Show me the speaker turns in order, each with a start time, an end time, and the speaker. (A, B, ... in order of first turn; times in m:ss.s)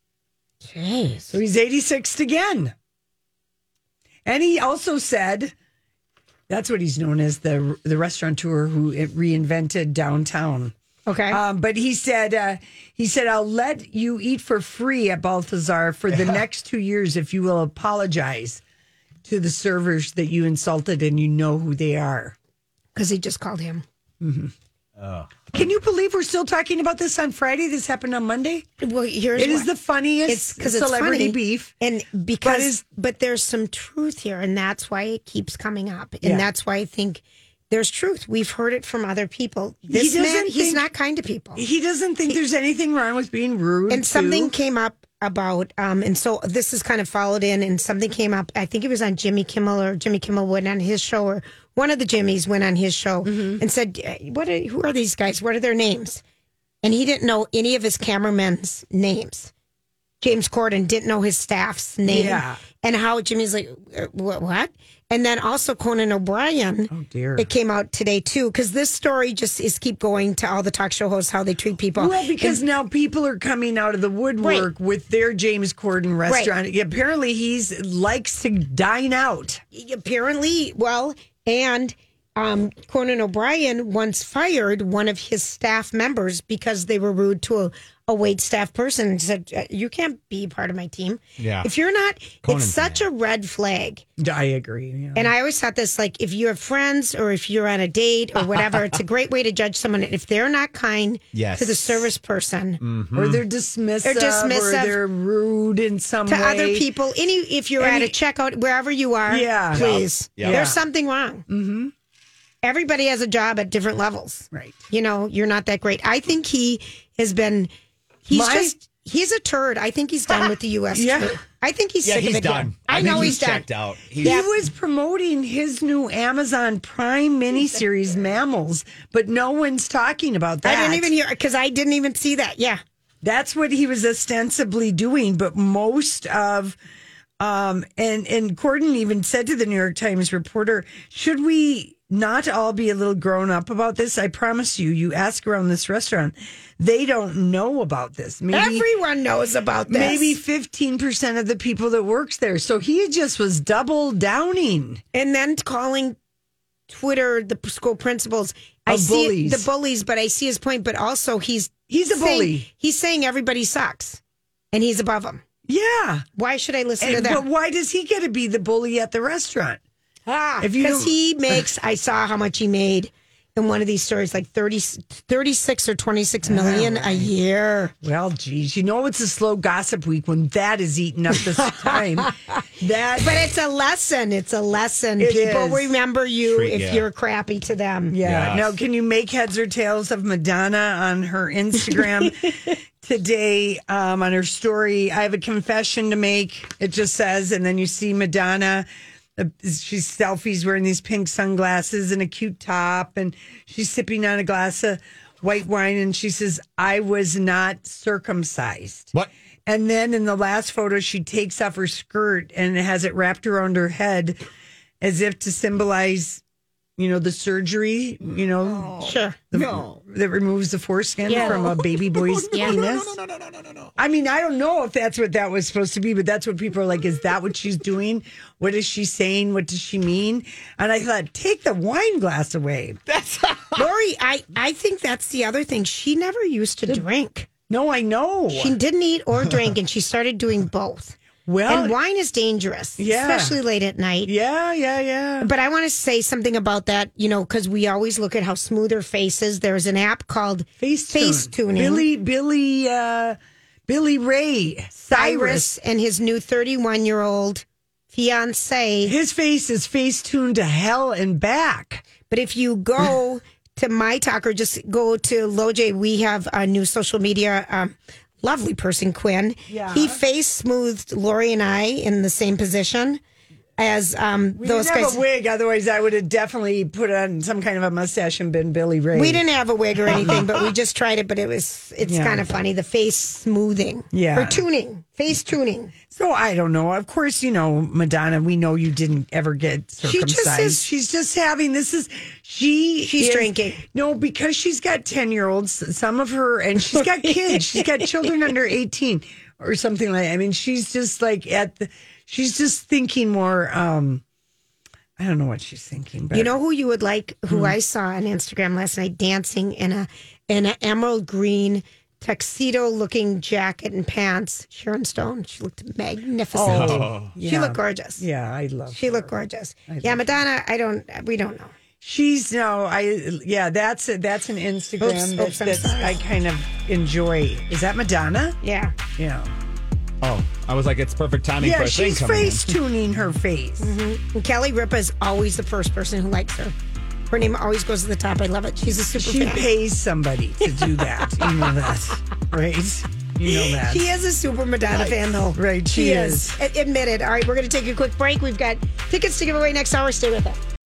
0:00.6-0:01.4 A
0:01.3-0:02.7 B
0:04.3-0:05.6 B
0:06.5-0:10.7 B
0:11.1-0:11.4 A
0:11.3-0:18.6 B
0:19.2-0:22.4 B
0:23.0-0:23.8 A
0:24.2-0:24.5 B
0:25.0-0:25.3 C
0:25.5-0:28.7 B
0:28.8-0:29.7 A
0:29.4-0:31.7 B
0:30.3-0:41.6 A
0:32.4-0:32.8 B
0:36.2-0:36.5 B
0:39.9-0:40.9 B
0:41.6-0:44.5 B
0:43.9-0:56.2 A
0:53.2-0:53.6 B
0:56.8-0:59.5 A
1:00.2-1:12.6 A
1:02.0-1:02.6 B
1:06.9-1:07.5 B
1:12.0-1:19.6 B
1:14.4-1:14.7 A
1:16.3-1:16.5 A
1:19.7-1:34.0 A
1:31.4-1:31.7 C
1:32.4-1:33.0 C
1:34.2-1:35.3 B
1:35.2-1:42.8 A
1:41.3-1:42.1 C
1:42.8-1:43.4 C
1:43.1-1:46.9 B
1:44.0-1:45.0 A
1:46.3-1:51.5 A
1:47.8-1:48.2 B
1:49.3-1:50.8 B
1:49.7-1:50.7 C
1:51.5-1:51.9 B
1:52.6-1:57.7 A
1:54.5-1:54.8 B
1:58.3-2:03.7 A
1:58.3-1:58.8 B
2:00.3-2:01.4 B
2:02.0-2:04.4 C
2:02.9-2:03.4 B
2:04.2-2:11.1 B
2:04.2-2:04.5 A
2:10.6-2:12.8 A
2:13.2-2:16.8 B
2:17.4-2:28.9 B
2:28.5-2:30.4 A
2:29.9-2:35.0 B
2:35.1-2:36.2 A
2:36.9-2:44.2 A
2:38.9-2:39.7 B
2:41.9-2:42.7 B
2:44.7-2:45.4 A
2:45.7-2:46.3 B
2:46.4-2:47.4 A
2:47.0-2:49.8 B
2:50.3-2:57.9 A
2:50.6-2:51.7 B
2:56.4-2:57.3 B
2:58.0-3:03.5 B
3:03.2-3:08.2 A
3:05.2-3:06.0 B
3:06.5-3:07.1 C
3:08.1-3:18.9 B
3:08.2-3:08.8 C
3:19.4-3:29.1 B
3:29.7-3:34.4 B
3:35.0-3:36.4 B
3:37.0-3:43.2 B
3:38.7-3:40.0 C
3:39.0-3:39.4 A
3:41.3-3:43.9 C
3:42.6-3:42.9 A
3:44.0-3:53.0 B
3:53.1-3:53.8 C
3:53.8-3:57.5 A
3:57.7-3:58.8 B
3:58.5-4:01.2 A
4:01.5-4:02.0 B
4:01.7-4:04.3 A
4:03.0-4:03.6 B
4:04.2-4:05.5 B
4:05.4-4:12.0 A
4:10.8-4:15.7 B
4:15.1-4:19.1 A
4:19.0-4:22.0 B
4:22.3-4:33.2 A
4:29.7-4:30.2 B
4:33.8-4:35.2 A
4:34.6-4:39.4 B
4:39.1-4:46.0 A
4:40.1-4:40.4 B
4:42.0-4:42.5 B
4:44.1-4:44.6 B
4:46.1-5:04.2 B
4:50.0-4:50.8 A
4:53.0-4:53.8 A
4:56.8-4:58.1 A
5:05.2-5:06.6 B
5:06.3-5:18.2 A
5:07.5-5:07.8 B
5:16.5-5:19.3 B
5:16.6-5:17.4 C
5:18.9-5:21.7 A
5:19.9-5:20.4 B
5:22.0-5:28.6 B
5:25.0-5:26.2 A
5:28.6-5:29.0 A
5:29.2-5:29.5 B
5:30.2-5:32.7 C
5:31.6-5:33.9 B
5:33.8-5:36.8 A
5:37.3-5:39.6 A
5:39.2-5:44.0 B
5:43.4-5:50.6 A
5:44.9-5:46.6 B